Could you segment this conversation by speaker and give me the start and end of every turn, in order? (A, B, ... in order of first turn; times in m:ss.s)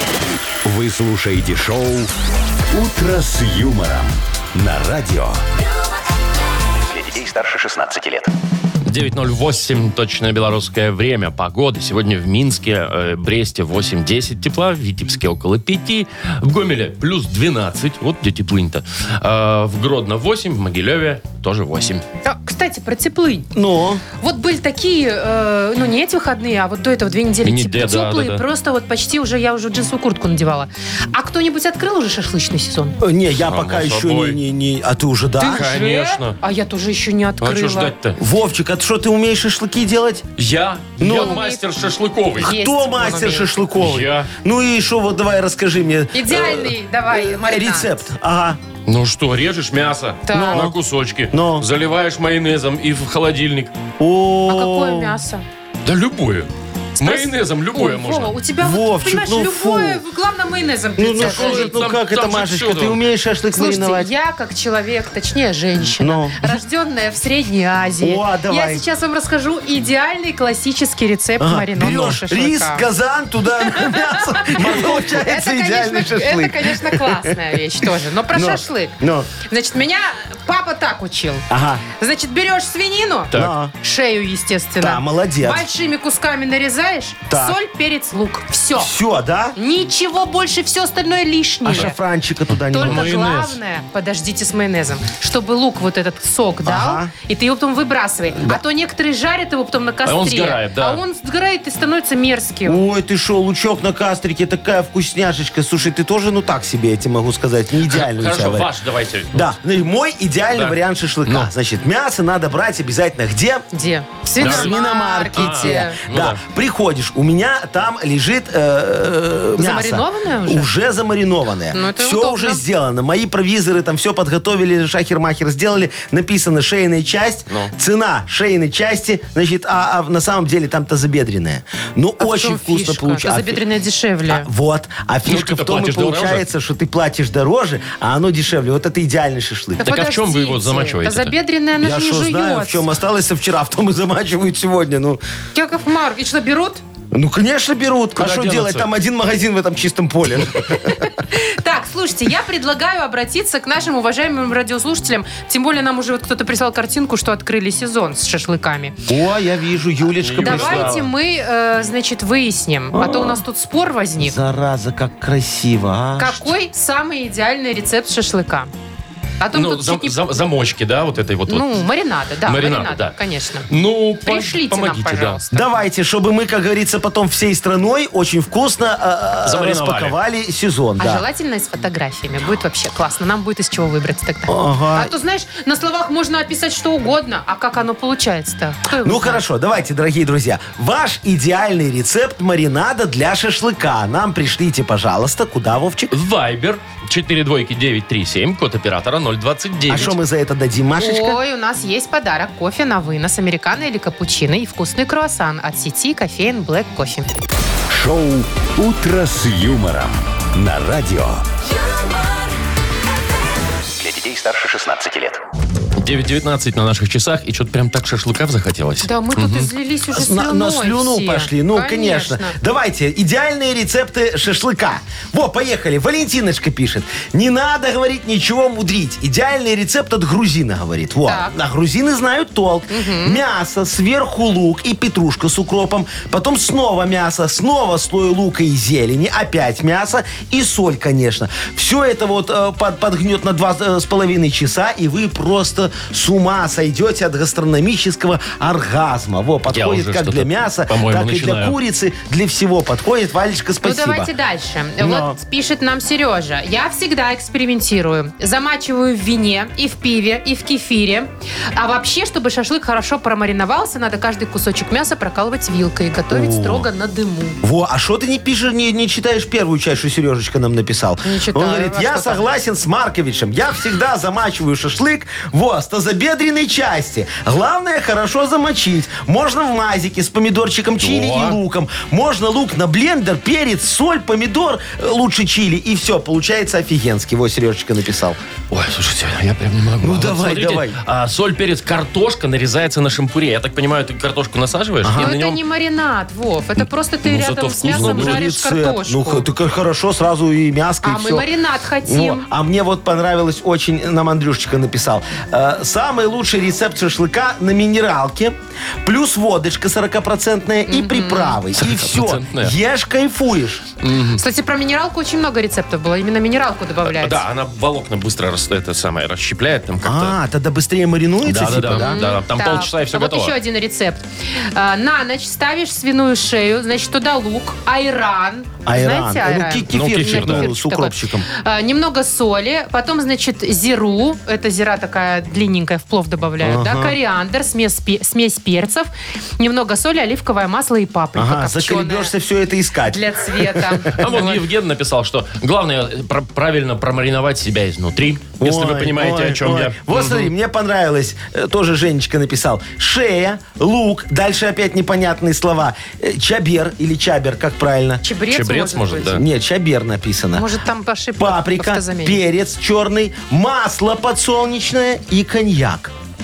0:00.6-0:02.1 A
0:02.7-0:05.4 A
0:06.9-0:08.3 B
0:08.8-0:22.0 C
0:22.2-0:23.5 D
0:23.6-0:24.0 E
0:24.2-0:33.0 D
0:27.4-0:28.4 C
0:33.0-0:35.7 E
0:33.4-0:34.4 C
0:35.4-0:37.9 D
0:35.4-0:36.4 C
0:37.4-0:38.2 C
0:38.2-0:40.2 E
0:40.4-0:42.5 C
0:41.0-0:41.4 E
0:41.0-0:41.6 D
0:42.4-0:43.5 D
0:42.4-0:48.6 E
0:43.8-0:44.3 C
0:46.1-0:48.1 D
0:48.9-0:53.7 C
0:50.3-0:50.7 D
0:50.3-0:50.8 E
0:51.3-0:51.7 E
0:54.0-0:55.2 E
0:54.5-0:55.4 D
0:55.8-0:58.4 C
0:57.0-1:01.8 D
0:58.6-1:00.0 E
1:01.0-1:04.1 E
1:01.2-1:03.0 C
1:03.5-1:12.8 D
1:06.0-1:06.6 E
1:08.0-1:08.8 E
1:11.4-1:17.4 E
1:13.7-1:28.9 D
1:18.3-1:19.3 E
1:21.5-1:21.8 E
1:23.3-1:23.7 E
1:24.8-1:25.7 E
1:27.3-1:27.6 E
1:28.8-1:29.6 E
1:29.6-1:32.0 D
1:31.6-1:33.2 E
1:32.7-1:42.8 D
1:32.8-1:33.6 C
1:36.6-1:37.1 E
1:38.3-1:38.6 E
1:40.0-1:41.0 C
1:42.6-1:48.7 E
1:47.9-1:49.5 C
1:49.3-1:53.7 E
1:50.5-1:51.5 C
1:53.7-1:56.0 D
1:54.4-2:13.6 E
1:54.4-1:54.8 C
1:55.3-1:56.4 C
1:59.6-2:00.7 D
2:01.7-2:02.6 D
2:12.2-2:14.5 D
2:14.3-2:19.9 E
2:15.3-2:16.4 C
2:19.8-2:22.8 D
2:19.8-2:21.4 C
2:21.8-2:25.2 E
2:25.5-2:26.8 D
2:27.1-2:31.1 E
2:28.2-2:28.9 C
2:30.8-2:39.0 D
2:39.1-2:41.0 E
2:40.2-2:41.1 C
2:40.4-2:44.4 D
2:42.9-2:43.4 E
2:44.2-2:46.5 E
2:46.2-2:48.7 D
2:49.4-2:50.2 D
2:49.5-2:51.8 C
2:51.5-2:53.7 D
2:52.4-2:53.2 C
2:53.7-2:55.4 C
2:54.2-2:55.7 D
2:55.5-3:01.2 E
2:59.4-3:00.2 C
3:01.0-3:09.4 D
3:04.5-3:05.1 E
3:09.0-3:16.1 E
3:16.1-3:20.2 C
3:19.9-3:21.4 E
3:21.0-3:27.3 D
3:27.9-3:31.4 A
3:34.0-3:35.4 B
3:36.0-3:39.7 C
3:39.0-3:42.6 D
3:40.1-4:14.3 E
3:51.3-3:51.5 D
3:52.9-3:53.4 D
4:09.7-4:11.8 C
4:13.8-4:27.6 D
4:15.0-4:15.4 E
4:26.3-4:26.9 E
4:27.6-4:48.4 E
4:31.2-4:32.4 D
4:41.0-4:41.6 C
4:48.7-4:55.6 C
4:50.0-4:51.0 E
4:55.0-4:55.3 E
4:55.2-4:59.4 D
4:57.2-4:58.4 C
4:57.9-5:01.5 E
5:01.0-5:02.4 D
5:02.0-5:13.9 E
5:10.9-5:11.6 D
5:11.8-5:12.7 C
5:14.0-5:14.4 C
5:14.4-5:17.4 D
5:17.0-5:20.4 C
5:20.0-5:22.2 E
5:21.4-5:23.6 C
5:21.9-5:42.3 D
5:28.8-5:31.5 E
5:29.9-5:30.7 C
5:36.6-5:37.2 E
5:41.4-5:44.5 E
5:43.1-5:44.6 D
5:44.2-5:50.5 C
5:48.6-5:58.2 E
5:58.2-5:59.4 D
5:58.5-5:59.4 C
5:59.3-6:00.7 E
6:00.6-6:02.4 D
6:01.4-6:06.1 E